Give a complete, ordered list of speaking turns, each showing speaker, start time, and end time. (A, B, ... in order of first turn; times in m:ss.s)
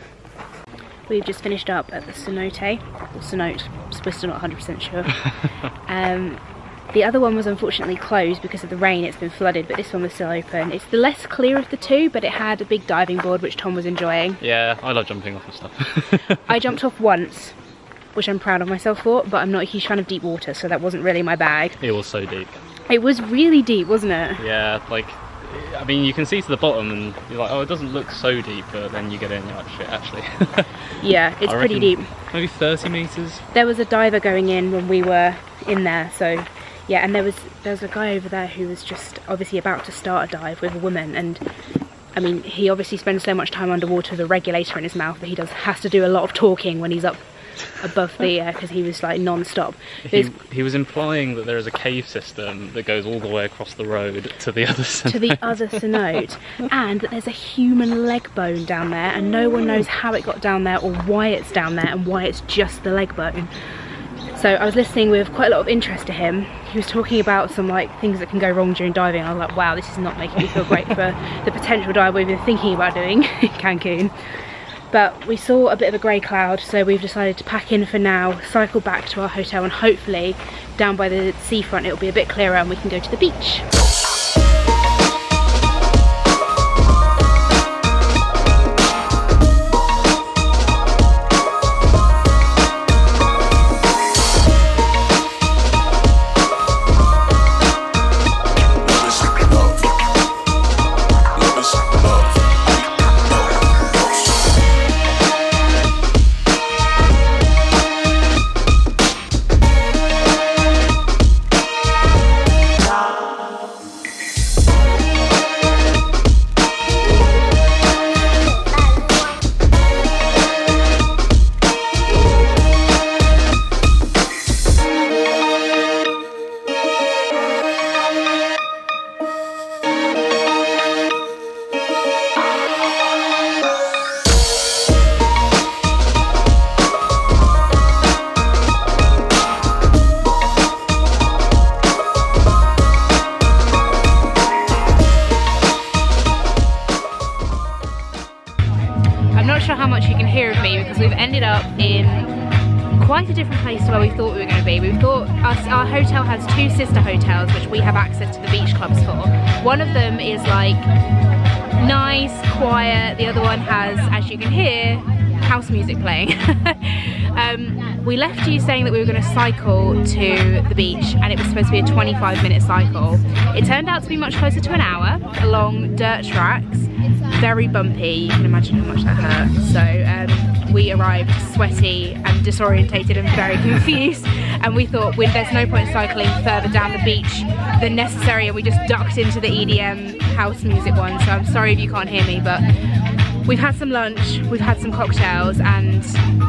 0:01.1-0:14.4 A
0:14.4-0:16.4 B
0:16.4-0:17.6 A
0:18.1-0:21.8 A
0:21.8-0:22.6 B
0:22.9-0:24.4 A
0:24.4-0:30.8 B
0:31.0-0:32.2 A
0:31.4-0:33.4 B
0:33.5-0:41.4 A
0:42.1-0:50.3 A
0:50.1-0:55.9 B
0:55.1-1:03.7 A
1:04.3-1:23.7 A
2:29.3-2:32.3 A
2:32.9-2:40.9 A
2:41.8-3:12.7 A
3:13.4-3:16.2 A